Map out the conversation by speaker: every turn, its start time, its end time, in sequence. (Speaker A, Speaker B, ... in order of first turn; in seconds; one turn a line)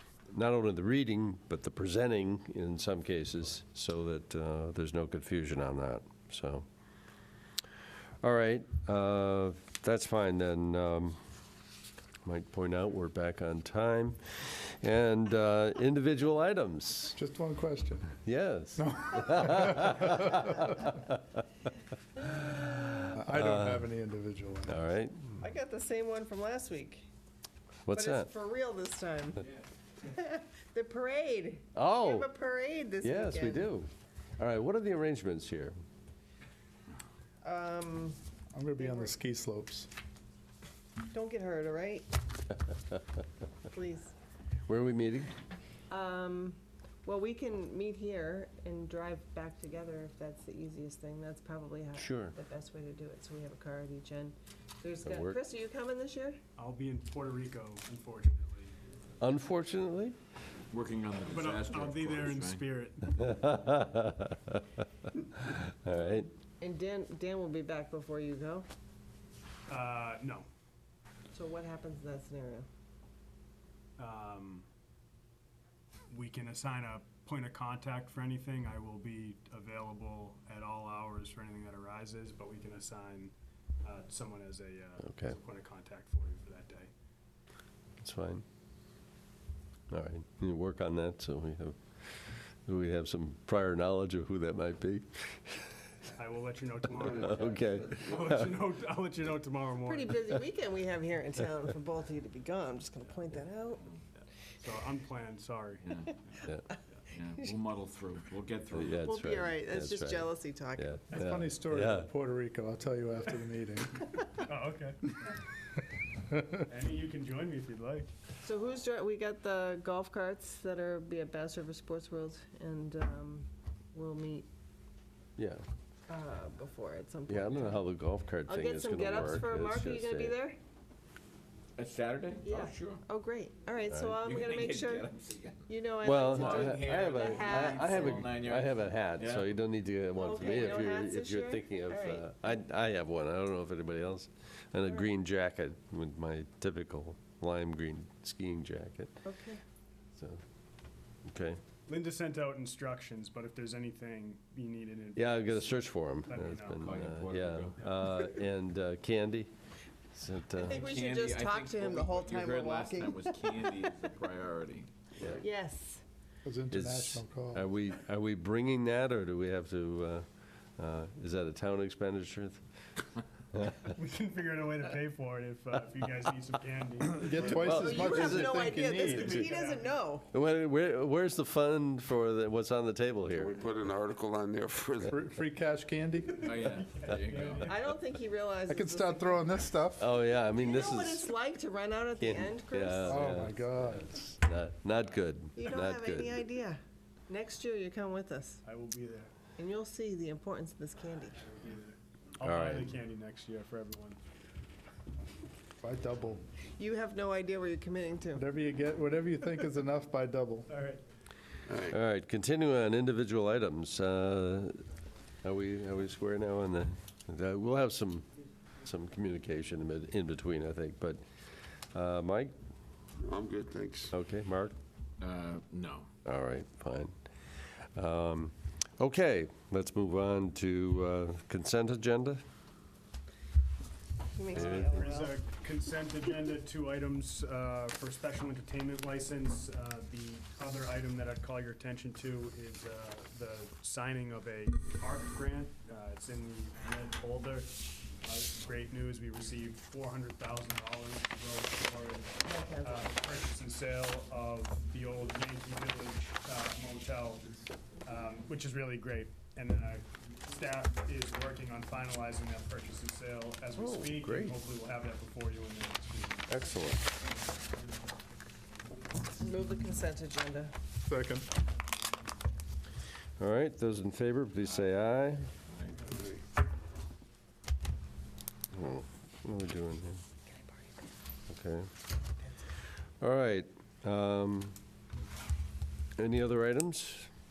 Speaker A: 0.3-6.7
Speaker A: 8.2-11.2
Speaker A: 12.2-17.2
Speaker B: 17.1-18.1
Speaker A: 18.2-21.3
Speaker B: 18.8-20.6
Speaker A: 22.3-23.9
Speaker B: 23.1-24.8
Speaker A: 24.7-25.4
Speaker C: 25.4-27.1
Speaker A: 27.9-28.3
Speaker C: 27.9-33.7
Speaker A: 31.8-32.3
Speaker A: 33.0-35.8
Speaker C: 37.4-38.2
Speaker B: 38.5-39.9
Speaker C: 38.8-39.1
Speaker C: 41.0-42.1
Speaker C: 43.7-44.1
Speaker A: 44.7-45.3
Speaker C: 45.9-56.4
Speaker A: 52.0-52.4
Speaker A: 55.1-55.4
Speaker D: 56.6-58.7
Speaker A: 59.2-60.2
Speaker E: 60.7-62.6
Speaker D: 61.3-63.1
Speaker A: 63.1-64.6
Speaker A: 65.4-66.3
Speaker C: 66.6-68.7
Speaker D: 69.7-70.5
Speaker C: 71.3-72.7
Speaker D: 74.0-74.7
Speaker D: 76.1-86.9
Speaker A: 88.0-88.4
Speaker A: 89.9-95.8
Speaker D: 96.2-100.1
Speaker A: 97.1-98.5
Speaker C: 99.9-103.8
Speaker D: 104.2-106.4
Speaker E: 105.8-106.2
Speaker A: 106.4-106.7
Speaker E: 107.1-109.1
Speaker A: 108.7-112.1
Speaker C: 109.0-111.0
Speaker B: 111.1-114.1
Speaker D: 114.2-115.0
Speaker B: 116.3-116.7
Speaker D: 116.7-118.1
Speaker C: 118.4-124.5
Speaker A: 125.4-125.6
Speaker C: 126.1-127.8
Speaker A: 127.3-130.4
Speaker C: 128.5-130.6
Speaker E: 131.8-133.0
Speaker C: 132.4-135.1
Speaker A: 133.9-134.2
Speaker E: 134.1-139.5
Speaker C: 135.7-138.3
Speaker A: 136.0-149.2
Speaker C: 140.2-142.2
Speaker C: 149.2-149.6
Speaker A: 150.2-150.4
Speaker A: 151.3-151.6
Speaker D: 151.9-156.9
Speaker A: 155.2-159.5
Speaker E: 156.8-157.8
Speaker A: 160.1-160.9
Speaker C: 160.6-163.8
Speaker E: 160.6-165.1
Speaker A: 165.2-165.4
Speaker C: 165.3-166.0
Speaker B: 166.4-167.7
Speaker A: 166.7-170.3
Speaker A: 170.8-172.6
Speaker D: 173.8-177.9
Speaker B: 177.0-179.4
Speaker C: 177.4-180.3
Speaker A: 177.6-178.7
Speaker D: 179.0-179.9
Speaker A: 180.3-183.6
Speaker F: 183.3-185.1
Speaker B: 185.1-186.5
Speaker E: 186.4-187.8
Speaker D: 186.9-187.8
Speaker C: 187.6-189.6
Speaker B: 188.7-190.1
Speaker A: 190.0-191.3
Speaker C: 190.4-193.3
Speaker A: 192.2-196.4
Speaker B: 193.1-194.1
Speaker C: 195.6-198.6
Speaker D: 198.7-199.3
Speaker C: 199.6-201.4
Speaker D: 201.4-204.2
Speaker A: 202.4-203.0
Speaker B: 205.8-206.4
Speaker C: 206.7-208.5
Speaker B: 208.3-210.7
Speaker D: 210.7-211.0
Speaker A: 211.8-214.8
Speaker A: 215.4-218.3
Speaker A: 218.8-221.2
Speaker A: 221.9-222.5
Speaker F: 223.2-224.1
Speaker A: 224.1-224.7
Speaker E: 225.2-226.1
Speaker A: 226.2-232.4
Speaker C: 234.3-235.3
Speaker D: 234.5-266.5
Speaker A: 234.6-234.9
Speaker C: 252.4-253.1
Speaker A: 263.8-264.6
Speaker A: 266.5-267.0
Speaker C: 269.3-270.7
Speaker B: 271.0-271.5
Speaker A: 273.4-275.5
Speaker E: 275.7-276.1
Speaker A: 278.7-280.2
Speaker A: 281.5-281.9
Speaker A: 283.2-284.8
Speaker A: 286.2-287.3